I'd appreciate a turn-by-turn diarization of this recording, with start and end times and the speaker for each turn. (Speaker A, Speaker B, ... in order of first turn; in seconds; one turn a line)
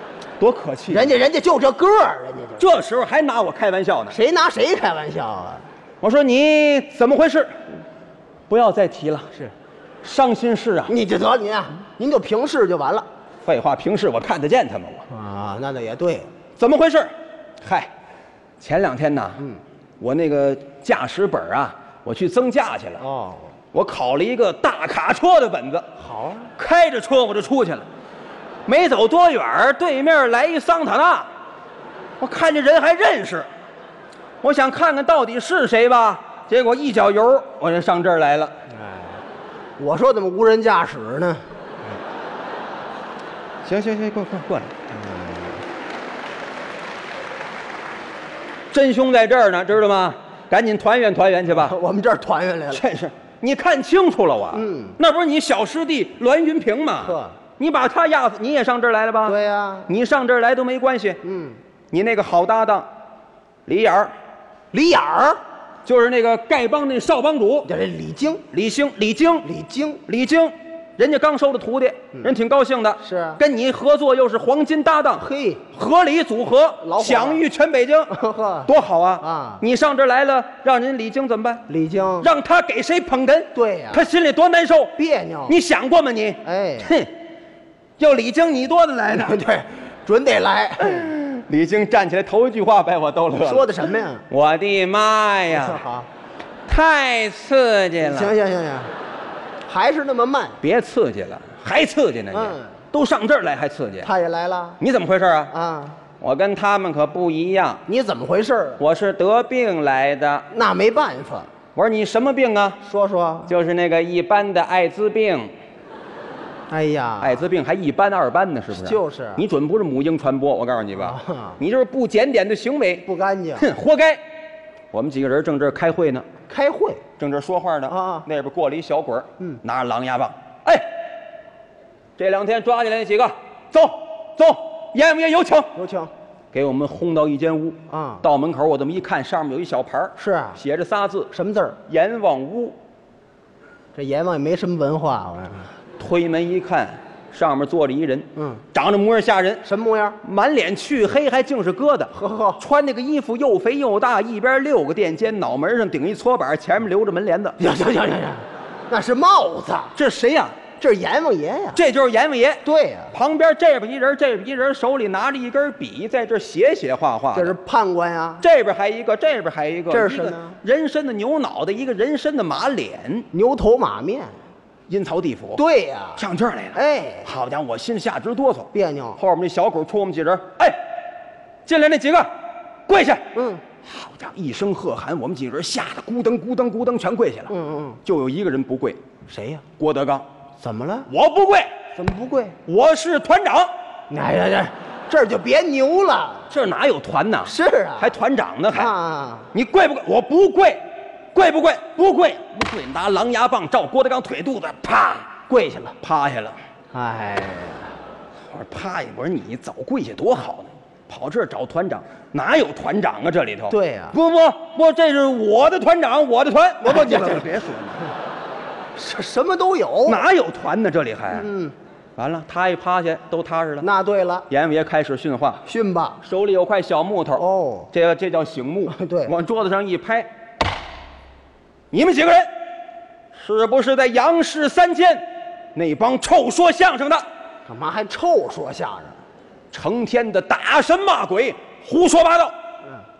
Speaker A: 0.4-1.1
Speaker B: 0.9-2.7
Speaker A: 2.6-4.2
Speaker B: 4.1-5.7
Speaker A: 6.0-7.8
Speaker A: 8.5-9.3
Speaker A: 10.0-10.9
Speaker B: 10.9-13.1
Speaker A: 13.4-15.1
Speaker B: 15.1-16.3
Speaker A: 16.6-17.9
Speaker A: 18.6-19.4
Speaker A: 20.0-23.0
Speaker B: 23.0-23.5
Speaker A: 23.7-25.9
Speaker B: 26.0-26.5
Speaker A: 26.6-27.9
Speaker A: 28.6-31.3
Speaker A: 32.2-33.5
Speaker A: 34.4-38.5
Speaker B: 38.7-39.2
Speaker B: 39.8-41.5
Speaker A: 43.6-44.7
Speaker B: 44.9-45.6
Speaker A: 48.7-51.8
Speaker B: 51.5-52.8
Speaker A: 52.7-61.2
Speaker B: 54.5-55.0
Speaker B: 57.0-57.4
Speaker B: 59.2-59.9
Speaker B: 61.2-61.6
Speaker A: 61.9-62.9
Speaker A: 63.6-64.1
Speaker B: 64.7-65.4
Speaker A: 65.8-67.7
Speaker B: 67.6-68.4
Speaker A: 68.5-69.5
Speaker B: 69.4-70.0
Speaker A: 70.1-81.7
Speaker B: 73.0-73.4
Speaker B: 75.2-75.6
Speaker B: 76.8-77.4
Speaker B: 78.1-79.6
Speaker B: 81.7-82.3
Speaker A: 82.2-84.9
Speaker B: 83.5-84.0
Speaker B: 85.0-85.5
Speaker A: 85.5-87.1
Speaker B: 86.4-86.9
Speaker A: 88.0-89.4
Speaker B: 89.1-91.1
Speaker A: 90.8-95.8
Speaker B: 93.4-94.2
Speaker B: 95.5-96.1
Speaker A: 96.7-98.3
Speaker B: 98.0-98.9
Speaker B: 99.7-100.6
Speaker A: 100.6-104.1
Speaker B: 102.3-102.8
Speaker B: 104.0-104.8
Speaker A: 104.8-105.5
Speaker B: 105.5-106.0
Speaker A: 106.2-107.8
Speaker B: 107.9-108.8
Speaker A: 108.8-110.5
Speaker B: 110.5-111.5
Speaker A: 111.7-112.8
Speaker B: 112.8-113.5
Speaker A: 113.5-115.5
Speaker B: 116.7-117.4
Speaker A: 117.2-124.2
Speaker B: 118.7-119.4
Speaker B: 121.0-121.6
Speaker B: 123.0-123.7
Speaker A: 124.9-126.3
Speaker B: 126.5-127.0
Speaker A: 127.2-131.0
Speaker B: 127.9-128.3
Speaker A: 132.2-135.7
Speaker B: 135.7-136.1
Speaker A: 136.5-141.3
Speaker B: 137.9-138.2
Speaker B: 140.2-140.6
Speaker B: 141.3-141.8
Speaker A: 141.9-142.8
Speaker B: 143.9-145.7
Speaker A: 146.0-149.6
Speaker B: 148.3-148.6
Speaker B: 149.6-150.2
Speaker A: 150.2-157.6
Speaker B: 152.1-152.6
Speaker B: 157.6-159.9
Speaker A: 159.9-160.6
Speaker B: 160.8-161.8
Speaker A: 161.7-167.6
Speaker B: 162.6-163.1
Speaker B: 167.3-168.4
Speaker A: 168.4-173.3
Speaker B: 169.9-170.6
Speaker B: 173.3-174.3
Speaker A: 174.9-175.6
Speaker B: 175.6-177.3
Speaker A: 176.2-180.8
Speaker B: 178.7-179.2
Speaker A: 181.6-182.3
Speaker A: 182.9-183.3
Speaker B: 183.3-183.6
Speaker A: 183.8-187.5
Speaker B: 187.5-188.0
Speaker A: 188.0-189.0
Speaker B: 189.3-189.6
Speaker A: 189.8-190.3
Speaker B: 190.6-191.1
Speaker A: 191.1-191.7
Speaker B: 191.9-192.6
Speaker A: 192.7-193.7
Speaker B: 194.1-196.5
Speaker A: 196.5-198.9
Speaker B: 197.4-198.1
Speaker B: 198.7-199.5
Speaker A: 199.5-205.4
Speaker B: 205.5-205.9
Speaker A: 206.0-206.6
Speaker B: 206.9-207.9
Speaker A: 208.4-218.1
Speaker B: 213.7-214.2
Speaker B: 216.8-217.5
Speaker B: 218.9-220.2
Speaker A: 220.0-221.5
Speaker B: 221.3-221.7
Speaker A: 222.2-223.9
Speaker B: 223.8-224.4
Speaker A: 224.5-225.6
Speaker B: 225.6-226.2
Speaker A: 226.2-230.3
Speaker B: 227.4-227.9
Speaker B: 228.9-229.3
Speaker A: 231.9-232.5
Speaker A: 233.3-237.2
Speaker B: 237.7-239.2
Speaker A: 239.7-242.5